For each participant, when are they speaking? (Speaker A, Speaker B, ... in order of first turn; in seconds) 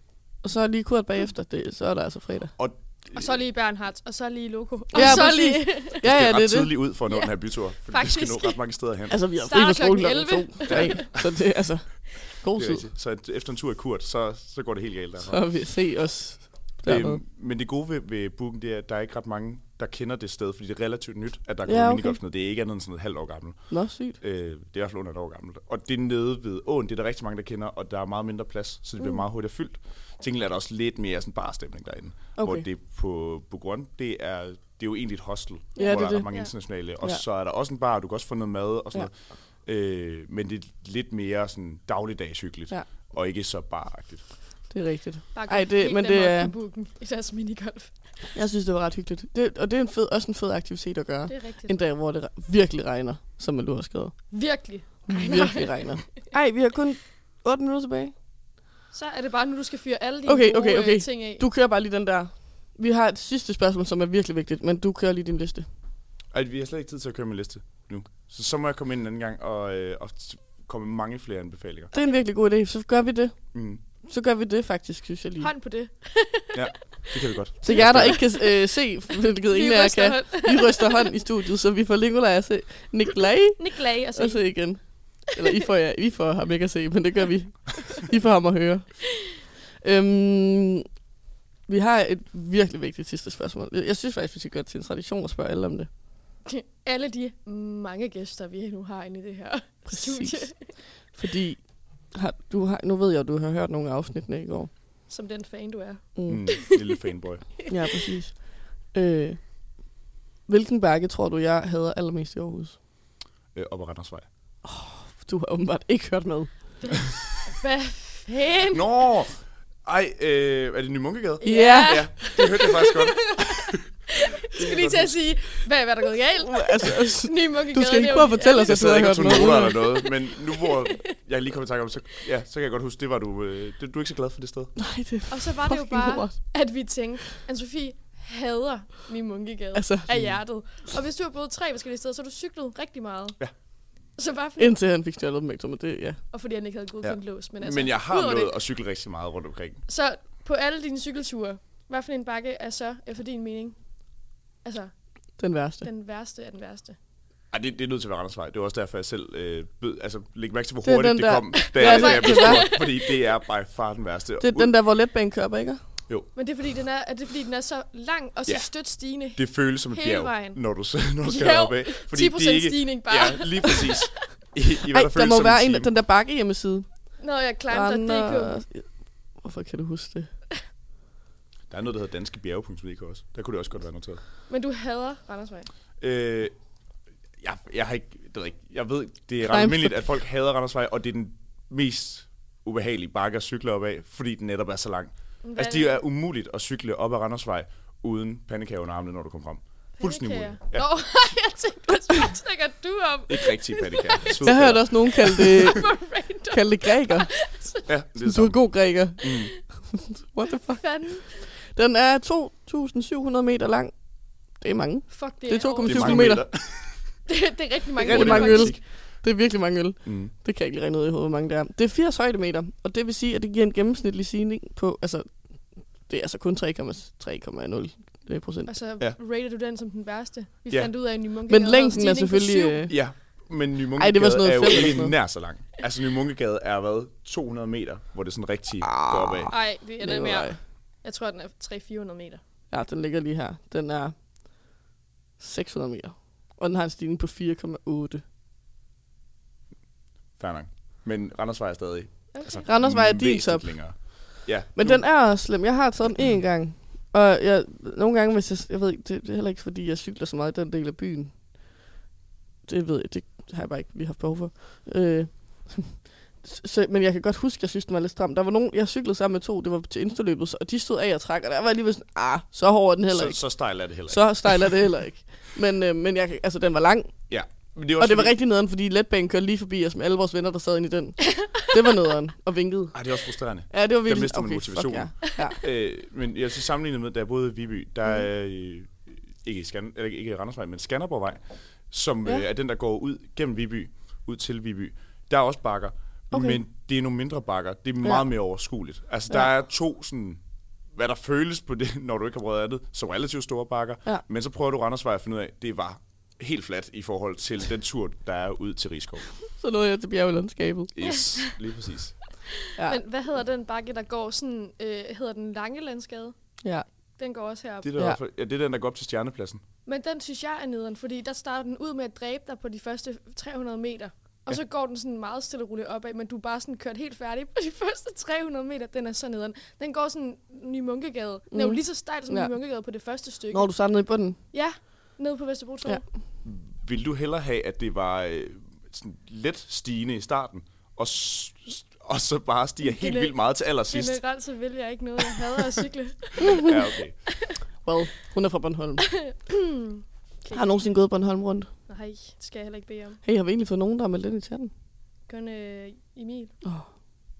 Speaker A: 0.4-2.5, 4.9-6.7, 9.1-12.9, 15.3-17.2, 21.6-22.2, 23.7-24.2, 32.4-32.6, 35.8-36.3, 44.7-46.5, 48.3-54.3, 55.1-58.1, 60.2-65.7, 71.9-75.5, 77.6-90.9, 91.7-95.9, 99.9-104.7, 106.1-106.5, 107.7-109.7, 110.5-112.8, 114.6-116.6, 121.4-122.1, 126.5-129.8, 134.8-136.5, 139.7-140.1, 144.6-146.2, 155.4-155.9, 160.8-162.7, 164.4-165.8, 174.9-177.1, 177.7-180.3, 189.5-190.0, 204.4-205.9, 206.5-207.3, 208.2-216.4, 218.0-228.7, 231.5-232.9, 234.0-235.2, 238.8-240.6, 242.7-244.1, 245.4-248.2, 252.6-254.2, 254.7-261.6, 262.6-277.1, 278.0-283.0, 283.7-285.6, 296.3-296.6, 309.6-310.9, 331.5-332.5, 333.5-334.4, 347.8-349.1, 350.5-351.7, 353.2-354.7
Speaker B: 2.6-3.4, 5.0-5.3, 6.0-9.2, 10.7-11.4, 12.6-15.5, 16.8-44.2, 66.3-71.9, 73.5-73.8, 76.5-78.2, 106.3-107.5, 113.5-114.2, 118.7-125.2, 128.6-134.8, 140.1-140.4, 147.0-149.8, 157.5-164.7, 169.3-175.9, 181.7-184.2, 186.0-186.5, 187.4-200.9, 203.3-205.6, 207.9-209.5, 215.8-217.2, 218.0-218.8, 220.0-220.3, 232.9-239.5, 250.4-255.1, 273.1-274.8, 277.3-278.3, 282.9-300.4, 300.9-309.2, 310.9-312.2, 317.8-319.6, 336.4-344.2, 345.4-345.8, 346.5-347.2
Speaker C: 3.1-6.0, 7.1-8.7, 9.4-11.1, 35.8-36.5, 45.3-48.1, 51.3-51.8, 54.3-56.0, 58.9-61.4, 75.4-76.7, 77.6-78.6, 79.5-81.0, 83.6-84.5, 96.5-100.7, 105.1-106.8, 116.8-118.9, 121.4-131.1, 135.3-143.6, 144.1-144.8, 146.3-148.5, 149.9-154.9, 155.8-157.0, 161.6-163.2, 166.3-174.1, 177.2-178.6, 184.5-185.7, 195.4-196.0, 200.0-207.9, 210.5-211.4, 215.1-216.5, 217.3-218.8, 228.7-232.9, 239.5-242.4, 252.3-252.7, 311.0-311.6, 312.8-316.4, 317.2-317.9, 319.9-333.7, 334.5-336.1, 342.8-346.8, 349.1-350.8, 351.9-353.2, 355.3-356.5